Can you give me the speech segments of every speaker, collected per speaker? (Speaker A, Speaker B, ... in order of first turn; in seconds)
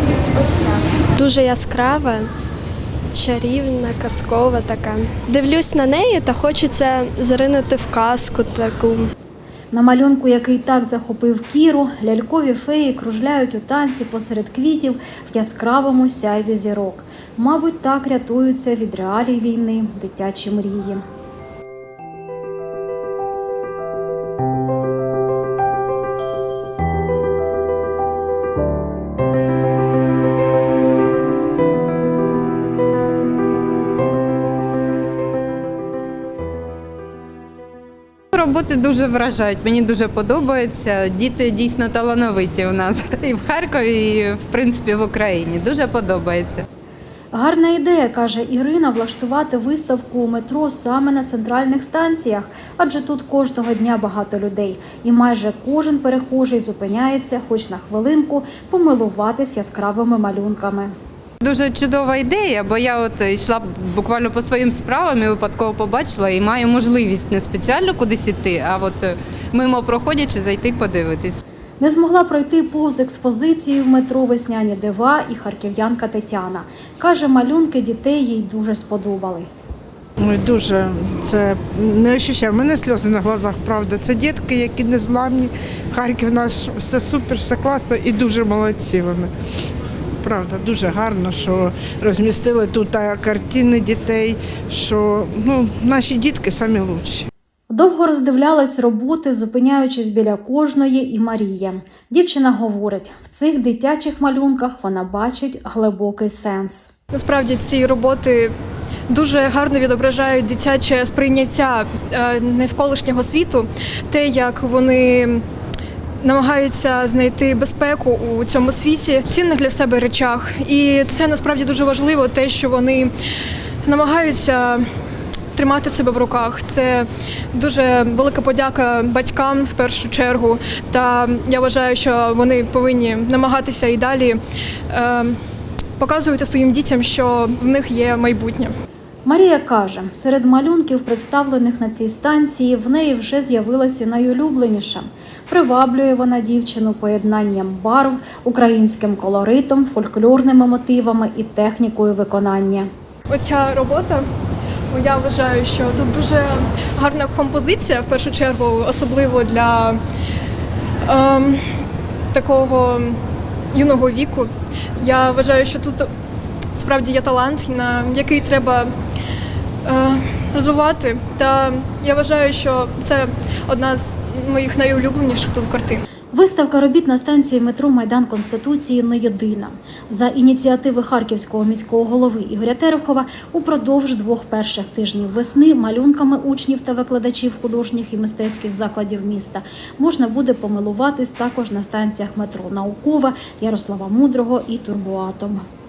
Speaker A: 0.3-2.3, 3.1-9.1
Speaker B: 9.7-21.0, 47.3-60.9, 71.8-79.7, 97.7-106.9, 139.2-152.9, 176.3-195.6
Speaker C: 38.3-46.6, 61.4-71.4
Speaker D: 80.2-89.3, 90.2-97.3
Speaker E: 107.1-108.5, 109.1-115.4, 116.2-123.1, 123.8-124.8, 125.5-134.4, 134.9-135.4, 136.0-138.7, 153.3-154.2, 154.9-160.0, 161.1-161.6, 162.3-163.2, 163.7-166.1, 166.7-168.9, 169.8-176.0